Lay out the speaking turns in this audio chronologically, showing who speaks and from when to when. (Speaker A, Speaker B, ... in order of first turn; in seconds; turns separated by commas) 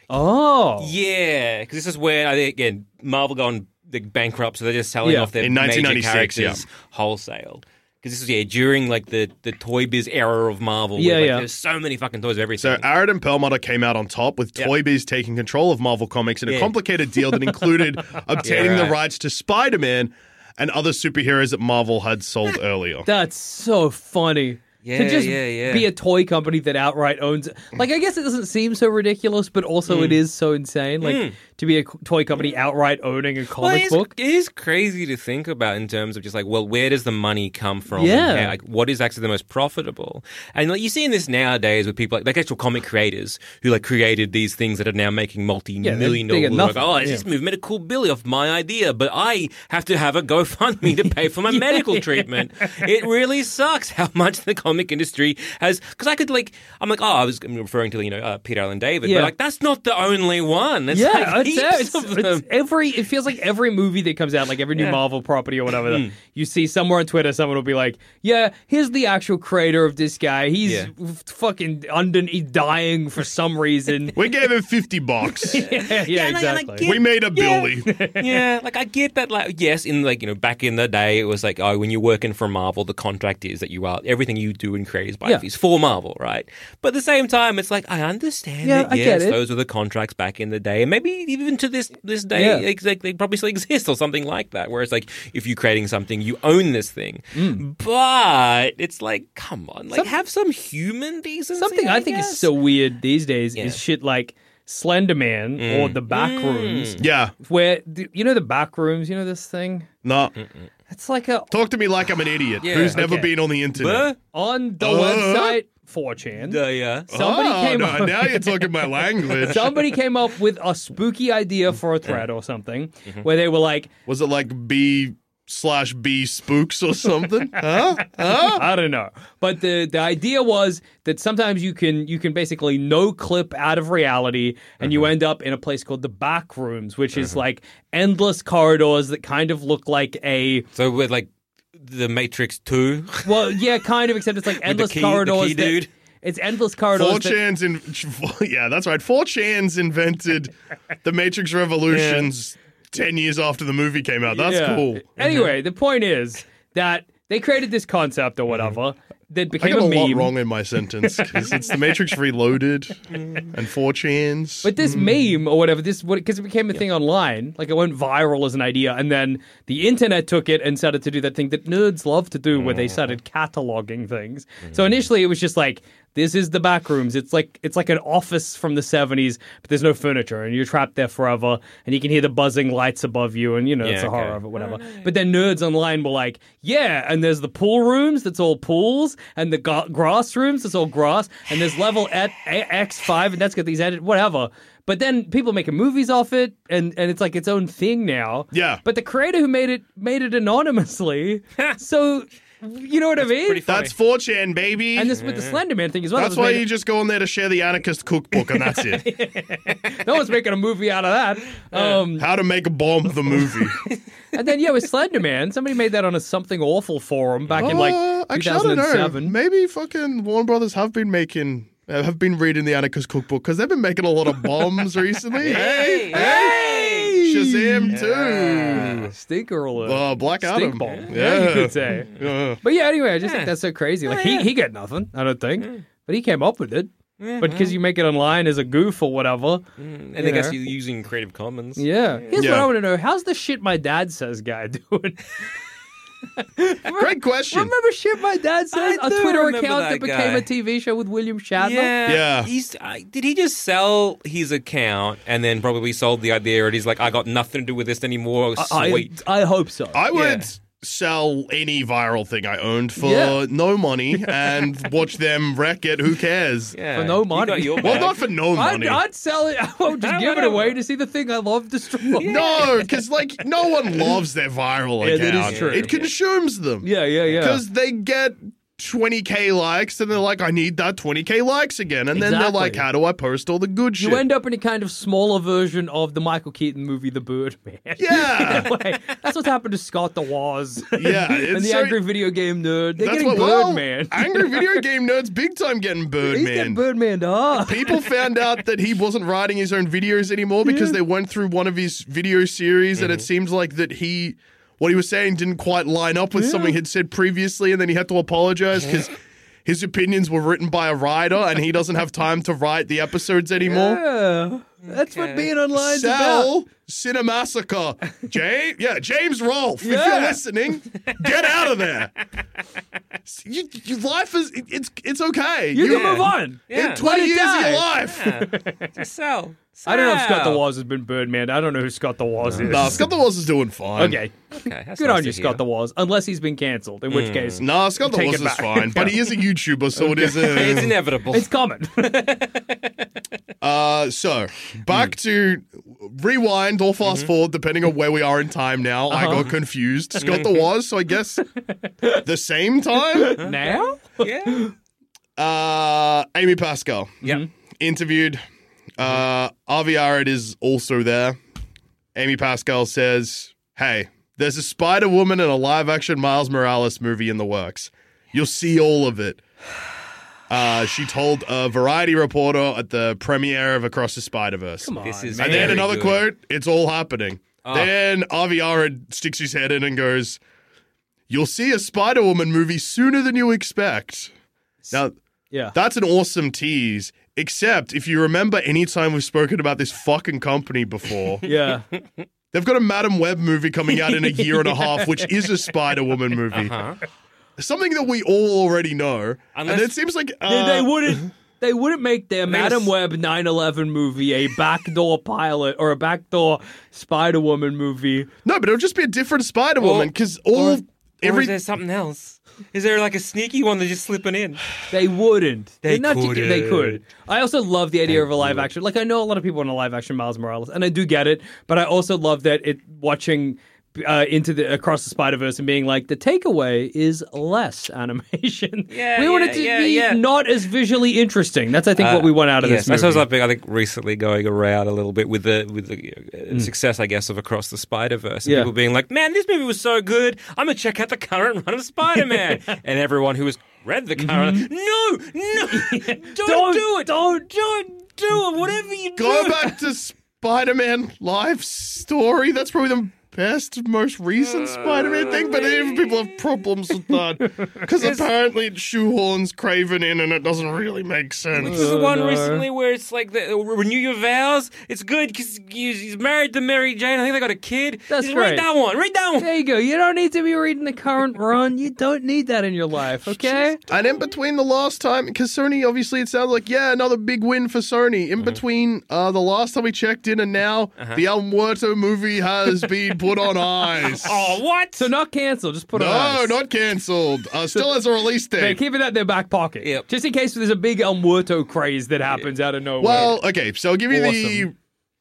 Speaker A: 0.1-0.9, Speaker B: 0.8-12.9, Speaker A: 5.0-5.3, Speaker C: 5.4-6.6, Speaker A: 11.0-11.4, Speaker C: 12.6-23.1, Speaker B: 16.5-16.7, Speaker B: 18.4-19.0, Speaker A: 23.1-34.1, Speaker B: 24.8-25.9, Speaker B: 29.9-30.2, Speaker B: 31.0-31.4, Speaker B: 33.6-62.5, Speaker A: 37.9-38.6, Speaker A: 45.8-47.2, Speaker A: 51.5-52.9, Speaker A: 59.0-59.3, Speaker A: 60.9-74.2, Speaker B: 64.8-65.0, Speaker B: 65.7-66.1, Speaker B: 70.7-70.9, Speaker C: 74.2-75.6, Speaker A: 75.3-76.9, Speaker B: 75.6-102.5, Speaker C: 76.8-77.9, Speaker A: 77.8-78.4, Speaker A: 88.6-89.4, Speaker A: 92.3-92.7, Speaker A: 97.3-97.6, Speaker A: 101.6-109.9, Speaker B: 105.6-107.0, Speaker C: 107.0-107.3, Speaker C: 110.0-110.4, Speaker A: 110.9-111.5, Speaker C: 111.5-114.1, Speaker B: 112.6-114.2, Speaker A: 113.0-113.3, Speaker A: 114.3-118.7, Speaker C: 114.8-115.6, Speaker B: 116.3-117.1, Speaker C: 117.1-119.8, Speaker B: 119.4-119.7, Speaker A: 119.4-123.9, Speaker C: 124.1-128.7, Speaker A: 127.7-140.7, Speaker B: 134.8-135.1, Speaker B: 137.1-137.4, Speaker B: 140.8-143.6, Speaker A: 143.3-147.4, Speaker B: 144.5-145.9, Speaker C: 146.9-150.5, Speaker C: 151.0-155.0, Speaker B: 151.9-152.2, Speaker A: 154.3-160.3, Speaker B: 155.2-155.5, Speaker B: 158.5-158.8, Speaker C: 159.6-165.1, Speaker A: 161.0-161.5, Speaker A: 164.6-203.7, Speaker B: 172.6-173.2, Speaker B: 174.7-175.0, Speaker B: 183.8-185.1, Speaker C: 198.5-198.8, Speaker B: 203.2-203.9, Speaker C: 203.7-205.2, Speaker A: 204.9-206.7, Speaker B: 205.1-205.6, Speaker C: 206.2-209.1, Speaker A: 208.3-212.3, Speaker B: 211.7-212.0, Speaker C: 212.2-213.8, Speaker A: 214.3-219.4, Speaker B: 217.5-217.8, Speaker C: 217.6-226.6, Speaker B: 225.4-227.2, Speaker A: 226.1-232.1, Speaker C: 227.1-229.1, Speaker B: 227.9-229.1, Speaker C: 229.8-232.6, Speaker B: 230.8-232.4, Speaker A: 232.6-239.7, Speaker B: 233.2-233.5, Speaker B: 234.1-234.5, Speaker B: 237.2-237.8, Speaker B: 239.8-242.4, Speaker A: 240.2-240.6, Speaker A: 241.8-245.4, Speaker C: 242.3-242.7, Speaker A: 246.4-251.9, Speaker C: 247.0-247.7, Speaker B: 248.7-250.5, Speaker B: 251.6-259.1, Speaker C: 252.1-252.5, Speaker A: 258.6-260.0, Speaker C: 259.9-266.8, Speaker B: 260.1-260.5, Speaker A: 263.0-263.4, Speaker B: 264.4-264.7, Speaker B: 266.7-268.3, Speaker A: 266.9-272.4, Speaker C: 267.8-269.0, Speaker B: 269.9-270.8, Speaker B: 272.1-272.9, Speaker C: 272.2-284.2, Speaker A: 275.0-276.1, Speaker B: 275.4-276.1, Speaker A: 276.8-277.6, Speaker A: 282.1-282.9, Speaker A: 284.0-294.9, Speaker C: 288.0-288.7, Speaker C: 290.9-292.0, Speaker C: 293.0-296.8, Speaker A: 296.2-298.0, Speaker C: 297.6-309.1, Speaker A: 300.6-301.0, Speaker B: 303.0-303.3, Speaker A: 306.4-306.8, Speaker C: 309.7-314.0, Speaker A: 313.6-316.5, Speaker B: 314.9-315.5, Speaker C: 315.7-322.1, Speaker A: 319.8-320.4, Speaker B: 321.0-321.9, Speaker C: 323.3-328.3, Speaker A: 325.7-328.9, Speaker B: 325.9-327.0, Speaker B: 328.1-330.6, Speaker A: 329.9-333.1, Speaker B: 332.4-333.1, Speaker C: 332.7-334.2, Speaker A: 334.0-339.2, Speaker B: 334.5-335.6, Speaker B: 337.1-337.6, Speaker C: 337.6-341.0, Speaker A: 339.9-342.4, Speaker B: 340.2-341.5, Speaker C: 343.6-351.4, Speaker B: 347.0-347.3, Speaker A: 349.1-349.5, Speaker B: 350.2-350.7, Speaker A: 351.8-352.2, Speaker C: 352.2-353.4, Speaker A: 353.1-354.7, Speaker B: 353.4-354.7, Speaker C: 355.4-358.4, Speaker C: 359.0-361.4, Speaker C: 362.1-369.4, Speaker C: 370.5-380.4, Speaker A: 374.8-375.9, Speaker B: 375.0-376.3, Speaker B: 377.6-377.9, Speaker C: 381.3-384.3, Speaker C: 385.7-391.5, Speaker A: 391.4-391.9, Speaker C: 392.5-396.8, Speaker A: 394.1-395.3, Speaker B: 396.5-397.0, Speaker C: 397.6-401.2, Speaker B: 399.5-399.9, Speaker A: 400.5-408.3, Speaker B: 402.5-402.9, Speaker C: 408.4-411.6, Speaker B: 409.8-414.7, Speaker A: 414.9-433.3, Speaker B: 415.8-417.0, Speaker B: 418.1-418.7, Speaker B: 428.9-430.2, Speaker B: 432.0-449.8, Speaker A: 438.4-438.7, Speaker A: 444.2-444.7, Speaker A: 445.7-447.5, Speaker C: 449.2-461.9, Speaker B: 454.4-456.6, Speaker B: 458.0-458.3, Speaker B: 461.5-469.5, Speaker A: 461.6-462.6, Speaker A: 468.1-468.7, Speaker A: 469.4-473.8, Speaker C: 473.9-484.4, Speaker B: 484.0-485.1, Speaker A: 485.0-486.6, Speaker C: 485.9-488.8, Speaker A: 488.6-493.4, Speaker C: 493.0-494.7, Speaker A: 494.1-494.7